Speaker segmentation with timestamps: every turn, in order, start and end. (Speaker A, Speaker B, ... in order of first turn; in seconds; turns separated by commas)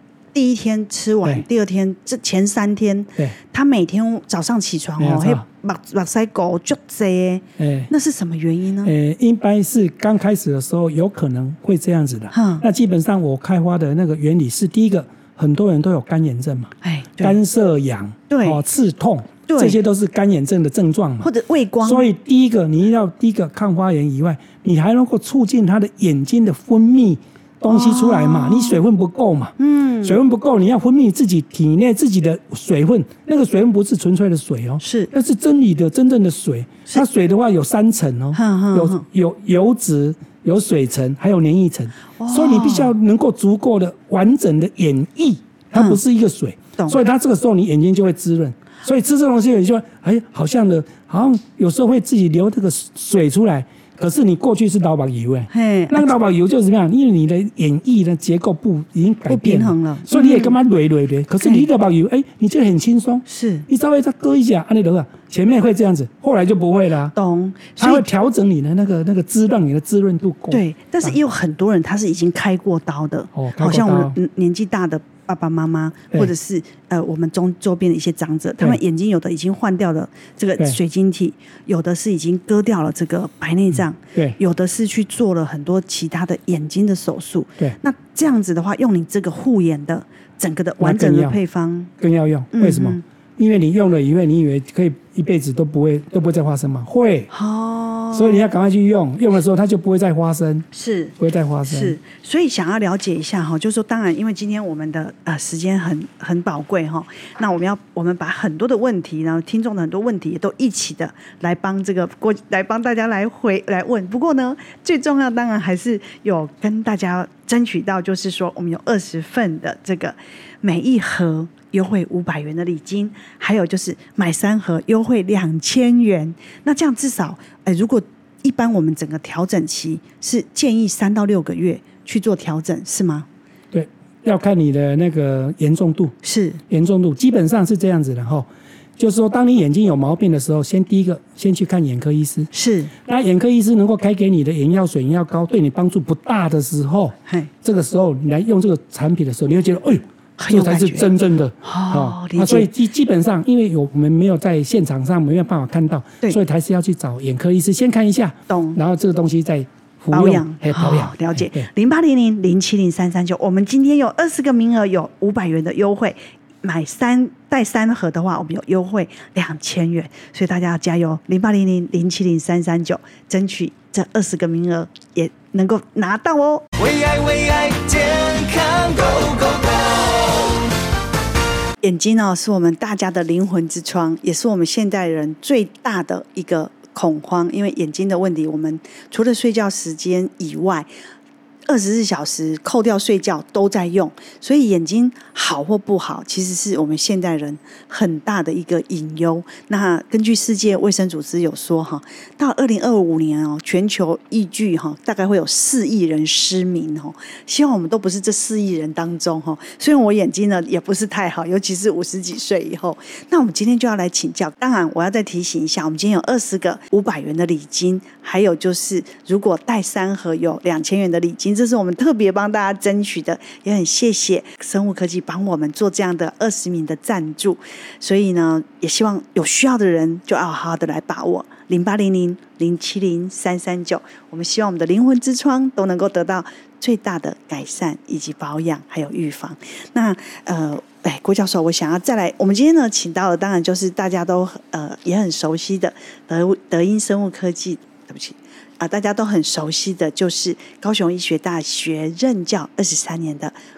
Speaker A: 0.3-8.9, Speaker B: 5.0-5.4, Speaker B: 7.6-7.9, Speaker B: 8.8-21.3, Speaker A: 12.3-12.6, Speaker A: 16.8-17.4, Speaker A: 18.3-18.6, Speaker A: 19.5-19.8, Speaker A: 21.2-22.1, Speaker B: 21.8-67.1, Speaker A: 27.7-28.8, Speaker A: 29.6-30.2, Speaker A: 34.8-35.1, Speaker A: 38.3-39.0, Speaker A: 42.2-43.0, Speaker A: 45.8-46.0, Speaker A: 55.5-56.1, Speaker A: 59.3-60.6, Speaker A: 61.4-61.7, Speaker A: 63.3-63.7, Speaker A: 67.1-68.1, Speaker B: 67.8-71.2, Speaker A: 70.5-91.9, Speaker B: 73.3-74.2, Speaker B: 84.0-84.4, Speaker B: 90.8-91.4, Speaker B: 92.0-97.3, Speaker A: 92.5-93.0, Speaker A: 97.3-98.5, Speaker B: 98.1-100.7, Speaker A: 100.7-101.1, Speaker B: 101.2-102.0, Speaker A: 101.7-133.3, Speaker B: 133.7-136.1, Speaker A: 136.2-136.6, Speaker B: 136.7-161.7, Speaker A: 142.5-142.9, Speaker A: 150.4-151.1, Speaker A: 151.6-152.7, Speaker A: 158.5-158.8, Speaker A: 160.1-176.7, Speaker C: 176.8-180.7, Speaker A: 181.8-190.9, Speaker A: 191.7-253.5